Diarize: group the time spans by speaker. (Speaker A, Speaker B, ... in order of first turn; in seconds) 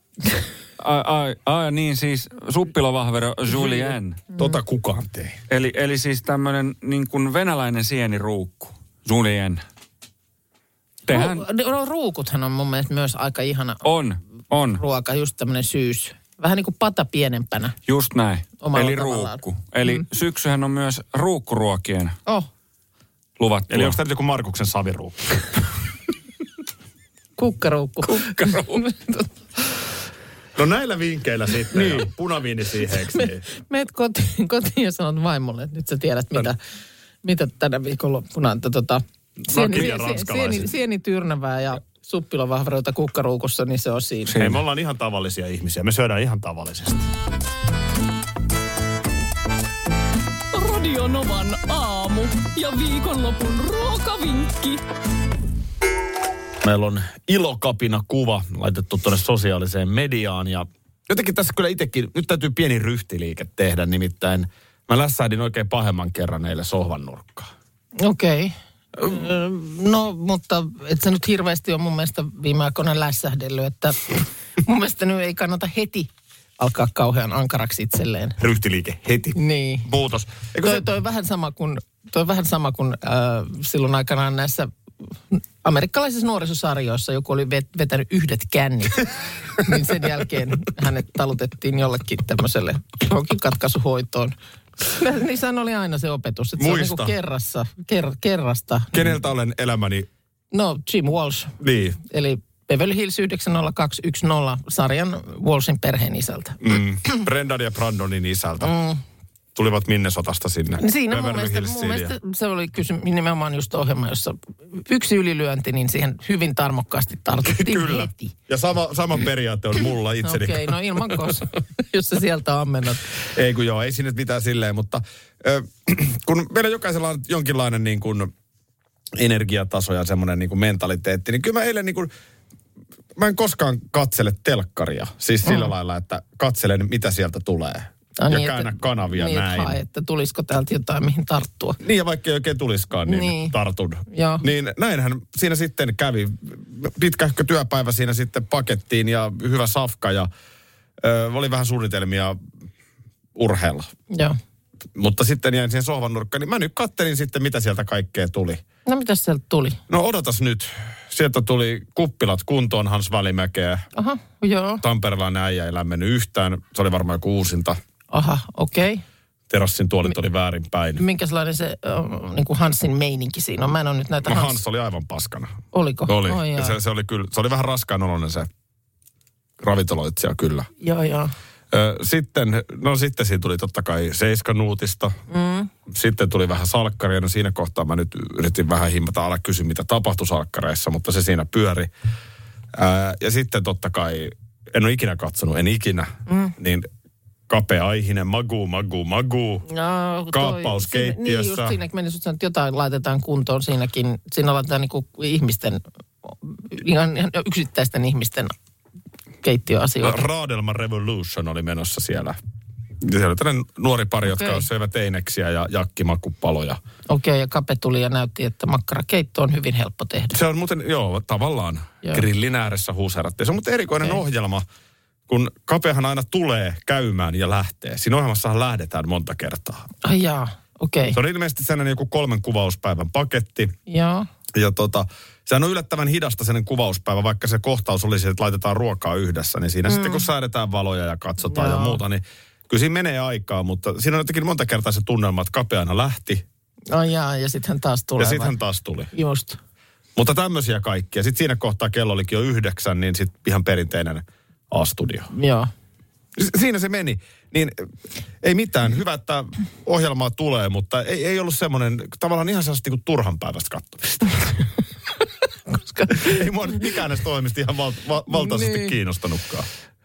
Speaker A: 0.8-4.2, 5.5-9.6, 11.1-11.4, 13.8-14.8, 17.9-22.2, 23.4-24.0, 28.1-28.8, 31.7-32.1
Speaker B: 3.6-5.4, 23.7-25.6, 30.6-33.4, 39.4-40.7, 44.4-47.1, 56.6-67.5, 78.4-80.9, 96.6-97.2, 98.9-100.1, 101.6-102.0, 106.6-108.7, 109.5-112.1, 117.4-120.8, 123.2-128.3, 129.2-132.1, 133.2-139.8, 141.8-150.3, 151.0-152.4, 153.3-153.9, 154.9-158.6, 159.9-163.9, 164.8-167.8, 169.5-171.0, 174.2-175.6, 176.1-178.5, 179.6-180.7, 181.7-185.1, 185.9-191.9, 192.7-196.9, 197.5-199.7, 200.3-201.8, 210.0-212.4, 213.0-216.8, 220.3-224.7, 225.3-229.9, 231.1-233.7, 234.5-246.4, 248.2-249.1, 250.2-255.3, 256.4-257.9, 258.4-264.5, 266.1-269.7
Speaker C: 11.1-13.8, 14.8-17.8, 18.6-20.1, 27.4-29.3, 33.1-36.6, 37.2-44.4, 68.0-78.4, 79.4-79.9, 80.6-84.7, 85.3-99.1, 100.5-106.6, 108.6-109.0, 110.8-118.3, 120.2-123.1, 138.2-141.8, 143.1-143.5, 144.1-144.5, 154.1-154.4, 158.9-159.8, 164.0-164.8, 168.1-169.0, 171.0-174.6, 175.7-176.8, 180.8-181.3, 185.3-185.7, 196.3-196.5, 199.7-208.5, 209.4-210.2, 214.3-214.6, 217.1-220.3, 230.0-231.2, 233.9-234.3, 239.9-240.2, 241.5-242.0, 246.9-248.5, 249.1-249.6, 255.3-255.7, 265.7-266.4, 268.3-268.9
Speaker D: 50.5-54.8